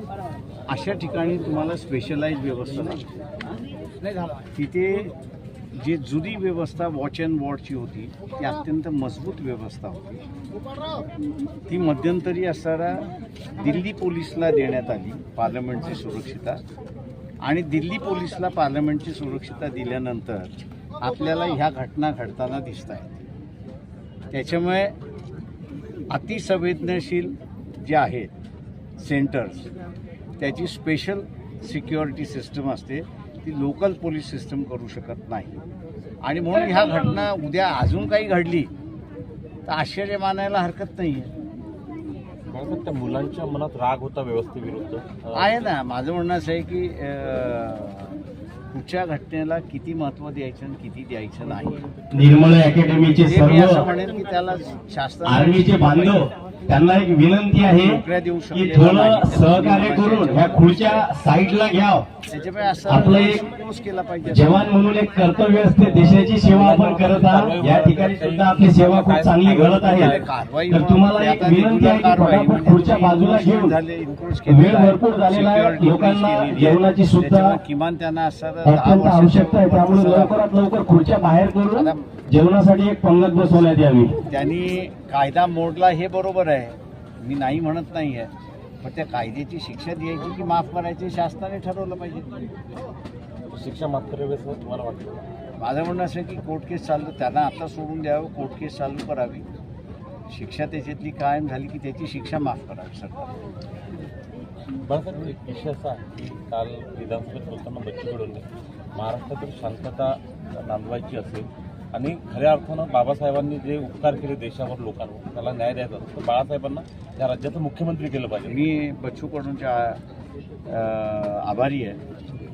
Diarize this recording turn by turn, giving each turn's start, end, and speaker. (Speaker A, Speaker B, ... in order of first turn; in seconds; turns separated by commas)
Speaker A: 0.7-3.0, Speaker A: 4.5-5.1, Speaker A: 5.7-10.2, Speaker A: 11.7-16.6, Speaker A: 17.4-23.2, Speaker A: 24.3-24.9, Speaker A: 26.1-28.3, Speaker A: 29.0-29.7, Speaker A: 30.4-35.6, Speaker A: 36.2-38.7, Speaker A: 39.7-41.3, Speaker B: 42.5-45.5, Speaker A: 45.3-51.8, Speaker C: 52.1-53.8, Speaker A: 53.2-56.3, Speaker C: 55.2-58.0, Speaker A: 57.7-61.1, Speaker C: 58.5-62.0, Speaker A: 62.3-64.7, Speaker C: 62.9-63.4, Speaker C: 64.2-70.2, Speaker B: 65.8-70.2, Speaker A: 69.8-80.4, Speaker C: 70.7-73.8, Speaker C: 74.5-77.6, Speaker C: 78.6-84.2, Speaker A: 81.7-82.1, Speaker A: 84.2-92.3, Speaker B: 93.5-95.2, Speaker A: 95.6-99.5, Speaker A: 100.3-103.2, Speaker B: 104.8-108.4, Speaker B: 109.0-118.6, Speaker A: 118.5-120.0, Speaker A: 120.7-122.0